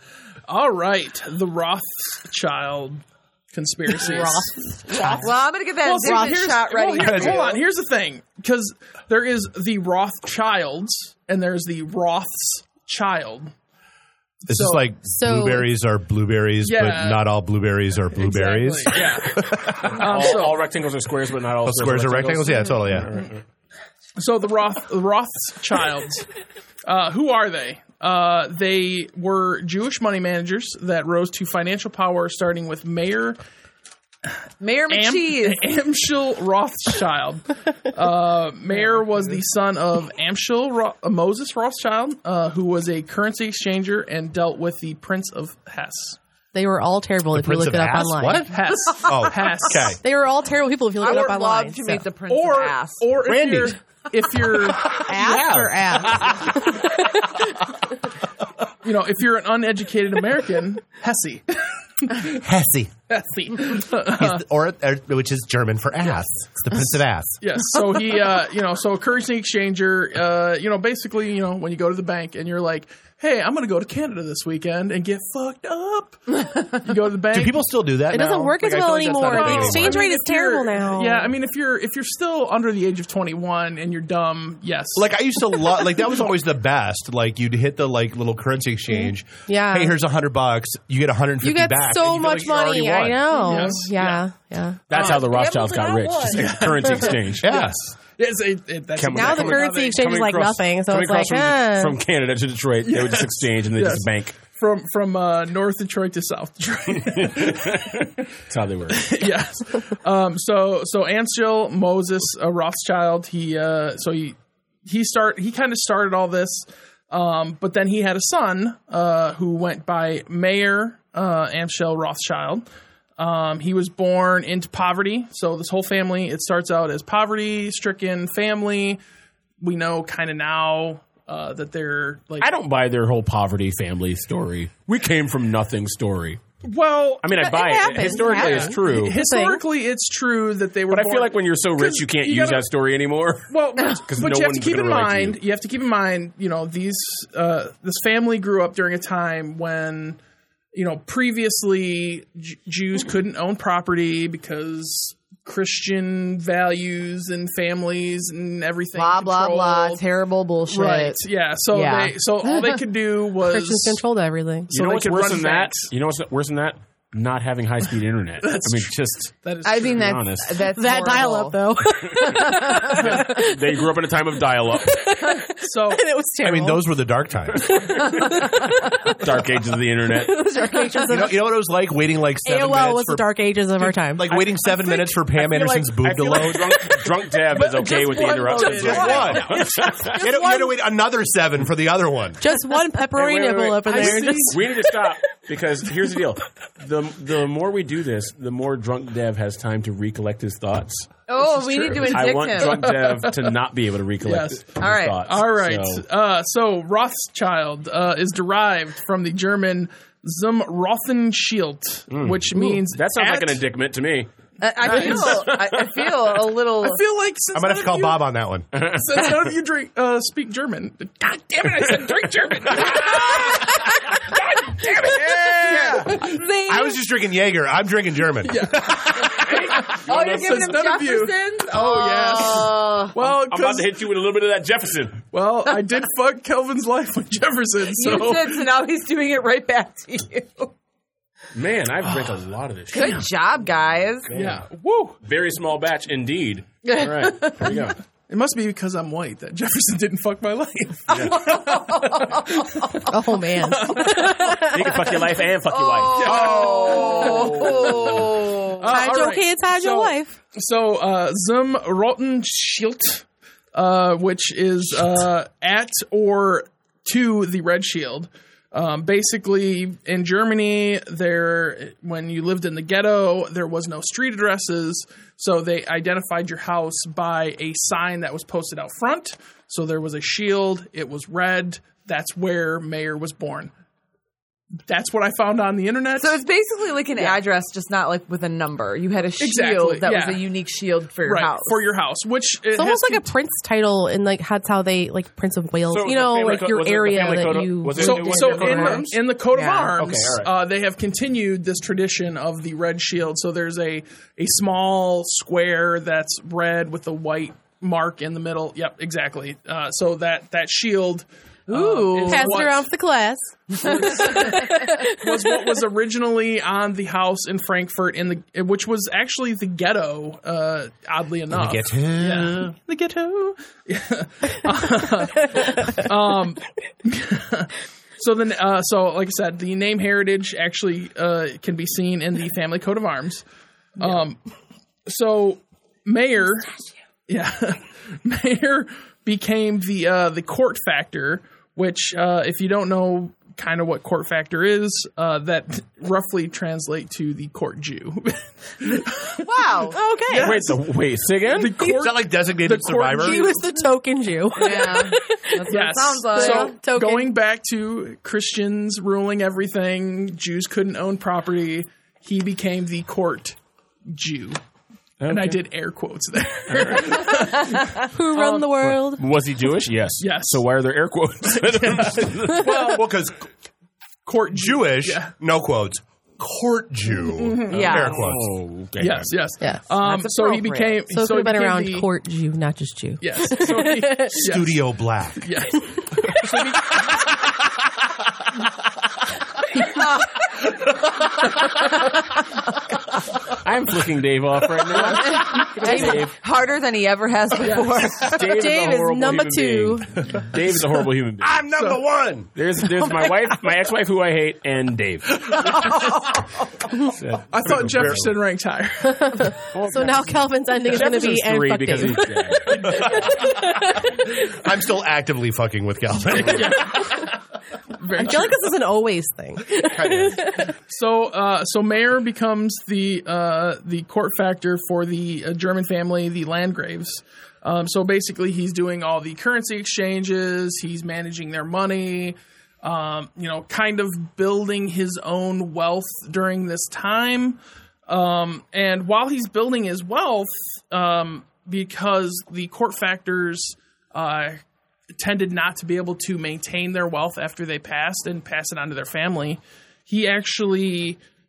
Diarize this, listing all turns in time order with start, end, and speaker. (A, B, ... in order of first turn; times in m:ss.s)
0:00.5-0:05.2 A
0:04.0-0:05.2 B
0:05.0-0:07.6 C
0:05.8-0:13.5 A
0:07.0-0:07.4 D
0:14.4-0:14.9 A
0:14.5-0:20.0 D
0:15.1-0:15.7 B
0:16.6-0:17.3 A
0:18.1-0:20.6 A
0:19.9-0:23.4 E
0:21.6-0:23.2 D
0:24.2-0:26.3 A
0:26.8-0:33.4 A
0:34.6-0:35.6 C
0:34.9-0:46.2 A
0:46.5-0:48.5 B
0:47.3-0:50.0 D
0:48.5-0:50.0 A
0:50.0-0:52.0 B
0:51.0-0:53.0 C
0:51.0-0:51.3 A
0:52.3-0:55.0 A
0:53.2-0:53.8 D
0:54.9-0:57.3 B
0:55.1-0:56.3 E
0:58.8-1:02.3 A
1:02.1-1:02.9 D
1:03.1-1:04.4 A
1:03.9-1:07.4 D
1:07.4-1:17.6 A
1:17.3-1:20.0 D
1:18.1-1:21.3 B
1:19.2-1:25.2 A
1:24.9-1:33.4 D
1:29.5-1:29.9 B
1:31.4-1:35.0 B
1:33.4-1:34.2 A
1:34.9-1:37.5 E
1:34.9-1:35.2 A
1:34.9-1:36.5 C
1:36.3-1:40.1 A
1:37.4-1:37.8 D
1:39.0-1:44.4 E
1:39.1-1:42.0 B
1:42.8-1:48.0 A
1:47.0-1:49.2 E
1:48.9-2:02.6 A
2:03.2-2:09.0 A
2:09.6-2:12.5 A
2:12.4-2:16.4 E
2:16.6-2:17.3 A
2:17.2-2:19.2 E
2:17.3-2:19.6 B
2:18.0-2:22.7 A
2:20.9-2:25.4 E
2:23.5-2:30.2 A
2:30.7-2:40.0 A
2:39.0-2:41.2 C
2:40.7-2:44.0 A
2:41.7-2:42.8 C
2:43.5-2:44.7 B
2:44.7-2:45.9 A
2:44.7-2:49.3 E
2:48.4-2:50.2 A
2:49.6-2:51.6 C
2:49.8-2:50.6 E
2:50.6-2:53.8 B
2:52.1-2:55.1 E
2:52.4-2:52.9 C
2:54.8-2:56.9 B
2:55.6-2:56.0 A
2:56.4-2:57.8 D
2:57.5-2:59.3 B
2:59.0-3:00.4 E
3:00.1-3:01.5 B
3:01.0-3:03.3 D
3:02.4-3:04.4 B
3:03.8-3:06.9 D
3:05.5-3:10.3 E
3:07.5-3:10.1 A
3:08.6-3:09.5 D
3:09.8-3:10.7 B
3:10.2-3:12.4 D
3:12.4-3:14.6 B
3:13.1-3:26.0 E
3:13.9-3:14.6 A
3:21.3-3:22.9 C
3:21.8-3:22.1 A
3:24.2-3:33.6 A
3:24.8-3:25.2 C
3:32.1-3:34.3 E
3:34.6-3:37.0 C
3:34.8-3:36.2 E
3:34.8-3:35.6 A
3:36.8-3:46.4 A
3:37.5-3:38.7 D
3:41.6-3:46.1 E
3:45.1-3:47.0 C
3:46.6-3:48.8 D
3:48.4-3:53.9 A
3:49.3-3:50.7 E
3:49.3-3:53.2 C
3:53.2-3:55.2 E
3:55.3-3:58.7 A
3:57.9-4:00.7 C
4:01.5-4:03.3 E
4:02.9-4:04.3 C
4:04.3-4:04.6 E
4:04.3-4:05.2 A
4:05.2-4:08.0 E
4:06.8-4:07.8 C
4:08.3-4:13.0 A
4:11.1-4:11.4 E
4:11.1-4:13.0 C
4:13.1-4:15.1 B
4:13.6-4:14.6 A
4:14.6-4:17.0 E
4:15.6-4:18.9 C
4:16.1-4:43.7 A
4:18.9-4:20.4 B
4:44.9-4:46.4 A
4:46.2-4:51.8 C
4:47.2-4:47.4 A
4:49.4-4:50.5 A
4:51.2-4:53.3 A
4:52.7-4:59.2 B
4:55.9-4:59.1 E
4:58.0-5:12.9 A
4:59.5-4:59.9 C
5:00.0-5:00.5 E
5:11.7-5:12.6 C
5:12.2-5:15.3 B
5:13.8-5:33.4 A
5:21.5-5:22.7 D
5:34.0-5:34.4 A
5:35.0-5:36.8 A
5:37.3-5:49.5 A
5:49.4-5:50.0 C
5:49.9-5:50.6 B
5:50.3-5:50.8 A
5:50.3-5:51.8 E
5:51.4-5:53.6 A
5:51.8-5:53.5 D
5:53.1-5:55.7 B
5:54.6-5:56.8 C
5:55.7-6:04.6 A
5:56.3-5:57.3 B
6:05.2-6:05.6 E
6:05.3-6:08.7 A
6:06.7-6:07.2 E
6:08.1-6:09.2 B
6:08.8-6:12.7 E
6:10.2-6:10.6 A
6:11.5-6:13.1 A
6:12.9-6:13.5 D
6:14.2-6:15.3 A
6:14.5-6:18.5 D
6:17.2-6:18.1 A
6:17.7-6:18.2 C
6:17.7-6:19.3 E
6:19.0-6:22.1 A
6:20.0-6:21.0 C
6:21.0-6:24.5 B
6:23.2-6:27.1 A
6:24.3-6:25.6 D
6:30.0-6:30.3 C
6:33.6-6:36.3 E
6:34.9-6:38.5 C
6:35.8-6:36.1 B
6:37.6-6:38.0 A
6:38.2-6:41.6 E
6:38.3-6:40.2 B
6:41.4-6:42.5 D
6:42.5-6:45.8 E
6:45.5-6:46.2 D
6:47.0-6:48.3 E
6:47.5-6:49.5 A
6:47.6-6:48.3 D
6:49.1-6:54.0 B
6:49.7-6:53.2 E
6:54.3-6:57.1 D
6:56.4-6:57.3 A
6:58.0-6:58.7 A
6:58.1-7:00.7 B
6:59.8-7:00.4 D
7:00.9-7:24.6 A
7:25.2-7:31.2 A